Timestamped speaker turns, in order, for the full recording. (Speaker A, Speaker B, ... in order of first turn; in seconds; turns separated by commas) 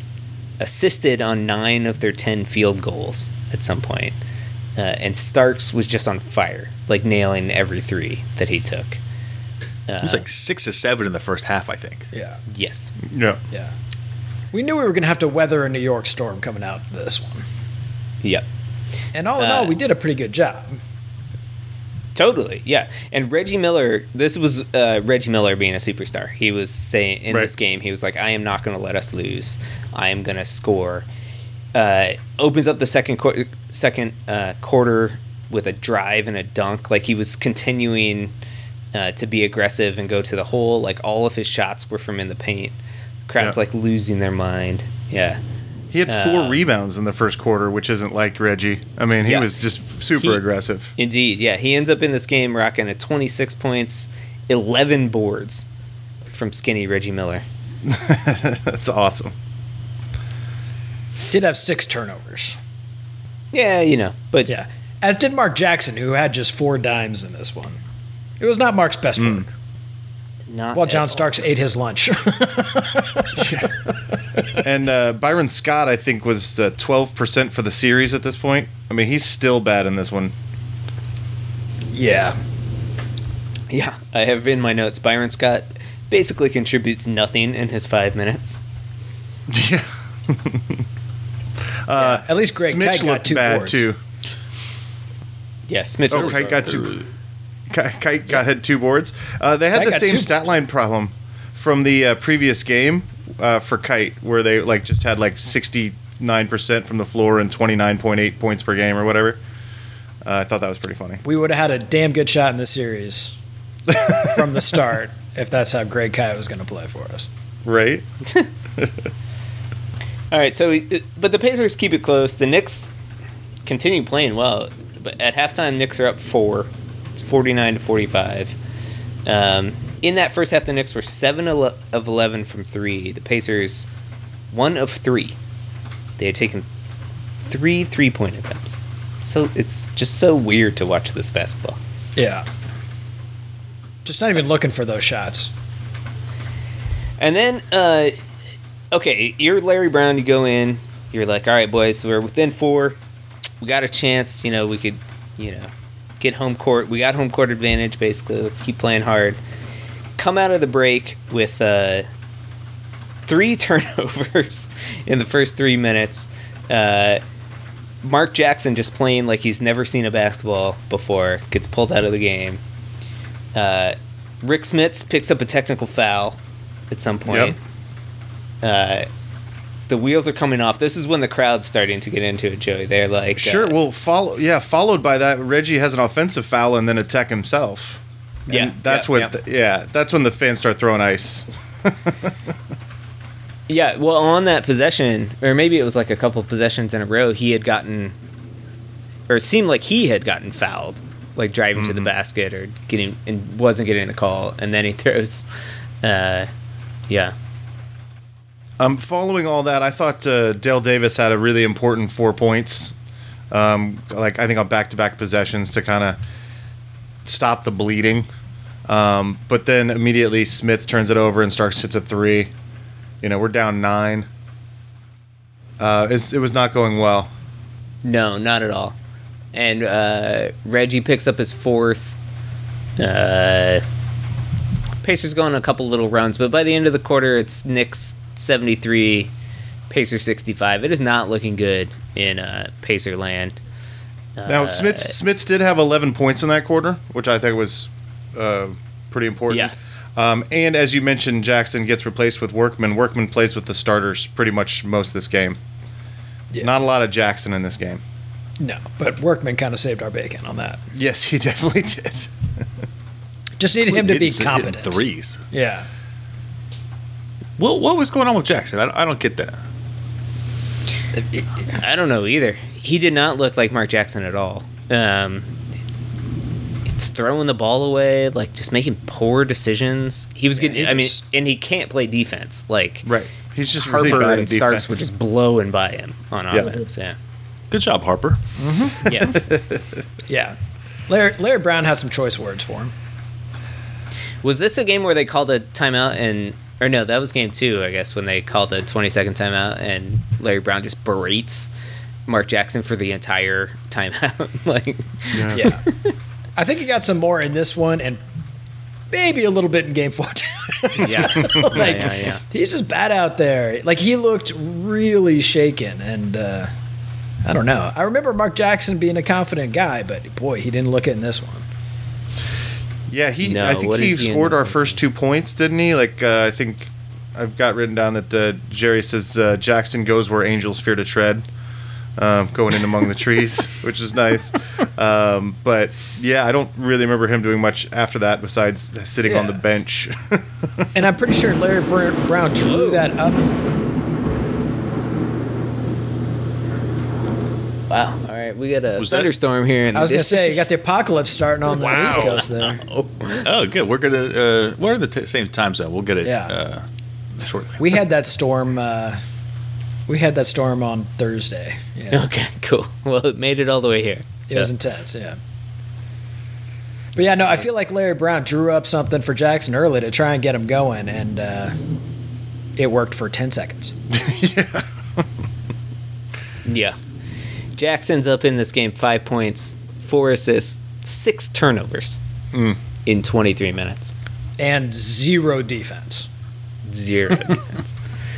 Speaker A: 0.6-4.1, Speaker A: 4.8-9.0, Speaker A: 9.9-10.2, Speaker B: 10.0-12.1, Speaker C: 12.1-12.4, Speaker A: 12.5-12.9, Speaker D: 13.0-13.4, Speaker C: 14.5-17.4, Speaker C: 19.1-20.8, Speaker A: 19.4-19.7, Speaker A: 22.1-31.1, Speaker A: 31.7-38.3, Speaker A: 38.9-42.8, Speaker A: 43.3-45.4, Speaker D: 45.9-50.9, Speaker A: 46.1-46.6, Speaker A: 49.2-49.5, Speaker A: 51.0-55.6, Speaker A: 56.3-57.4, Speaker D: 57.9-59.3, Speaker C: 61.3-62.6, Speaker A: 63.5-64.5, Speaker C: 64.5-67.8, Speaker C: 68.4-69.5, Speaker D: 69.2-69.4, Speaker A: 70.5-71.3, Speaker C: 70.7-73.6, Speaker D: 73.4-73.7, Speaker D: 74.5-80.3, Speaker C: 81.9-82.4, Speaker A: 83.7-88.6, Speaker D: 89.5-90.8, Speaker D: 91.8-94.0, Speaker C: 91.9-93.8, Speaker A: 95.7-96.8, Speaker D: 96.1-96.9, Speaker B: 96.2-97.0, Speaker D: 97.7-109.4, Speaker C: 99.7-100.3, Speaker D: 110.2-111.2, Speaker C: 111.2-113.4, Speaker D: 113.9-114.6, Speaker C: 113.9-117.3, Speaker D: 117.6-118.0, Speaker A: 120.3-122.9, Speaker A: 123.7-128.6, Speaker A: 129.2-133.9, Speaker A: 134.5-135.3, Speaker A: 136.2-136.7, Speaker A: 137.4-141.8, Speaker C: 142.2-142.5, Speaker C: 144.0-145.5, Speaker A: 147.2-148.1, Speaker A: 148.9-153.0, Speaker A: 153.6-159.4, Speaker A: 160.2-162.1, Speaker A: 163.3-167.2, Speaker A: 168.0-172.6, Speaker A: 173.5-176.4, Speaker A: 176.9-177.6, Speaker D: 177.2-177.6, Speaker A: 178.6-179.1, Speaker A: 179.9-183.7, Speaker D: 183.4-192.3, Speaker A: 188.5-189.3, Speaker A: 193.7-198.1, Speaker A: 199.3-205.4, Speaker D: 201.8-202.1, Speaker A: 206.0-206.5, Speaker A: 207.1-207.3, Speaker D: 208.8-212.9, Speaker D: 213.5-216.2, Speaker D: 217.2-218.3, Speaker D: 218.8-222.5, Speaker D: 223.2-224.3, Speaker D: 225.8-227.3, Speaker A: 228.0-228.9, Speaker A: 229.5-232.2, Speaker A: 233.0-233.8, Speaker A: 235.0-239.3, Speaker A: 239.9-243.6, Speaker A: 244.4-245.1, Speaker D: 244.4-255.6, Speaker A: 249.5-249.7, Speaker D: 256.6-258.0, Speaker C: 258.6-260.8, Speaker D: 260.9-262.4, Speaker C: 263.6-265.9, Speaker B: 263.8-265.4, Speaker B: 267.6-269.6, Speaker A: 271.8-275.5, Speaker A: 276.9-283.1, Speaker C: 280.6-281.2, Speaker D: 283.0-285.0, Speaker A: 283.7-287.2, Speaker D: 286.5-286.8, Speaker B: 287.7-288.4, Speaker C: 288.6-289.1, Speaker A: 289.0-289.3, Speaker D: 289.3-290.0, Speaker C: 290.3-290.6, Speaker C: 291.1-292.9, Speaker A: 294.4-301.7, Speaker A: 302.3-306.1, Speaker D: 305.3-305.6, Speaker C: 305.5-305.8, Speaker C: 306.6-308.2, Speaker C: 309.1-316.7, Speaker A: 311.0-312.4, Speaker D: 311.4-311.7, Speaker C: 317.4-321.6, Speaker D: 323.1-331.4, Speaker A: 323.4-325.0, Speaker D: 332.2-340.9, Speaker C: 339.2-339.6, Speaker C: 340.9-343.6, Speaker A: 342.6-343.1, Speaker A: 347.9-350.7, Speaker B: 349.0-349.3, Speaker C: 349.9-352.8, Speaker A: 351.7-353.5, Speaker B: 353.4-356.8, Speaker C: 356.2-356.5, Speaker B: 357.4-358.0, Speaker C: 357.8-359.2, Speaker C: 360.1-362.2, Speaker A: 362.1-364.7, Speaker C: 364.5-365.4, Speaker C: 367.1-371.7, Speaker C: 372.8-373.9, Speaker D: 374.1-375.2, Speaker A: 376.6-377.0, Speaker A: 377.8-382.2, Speaker D: 382.5-382.8, Speaker A: 383.0-384.1, Speaker C: 384.6-386.3, Speaker A: 386.8-387.7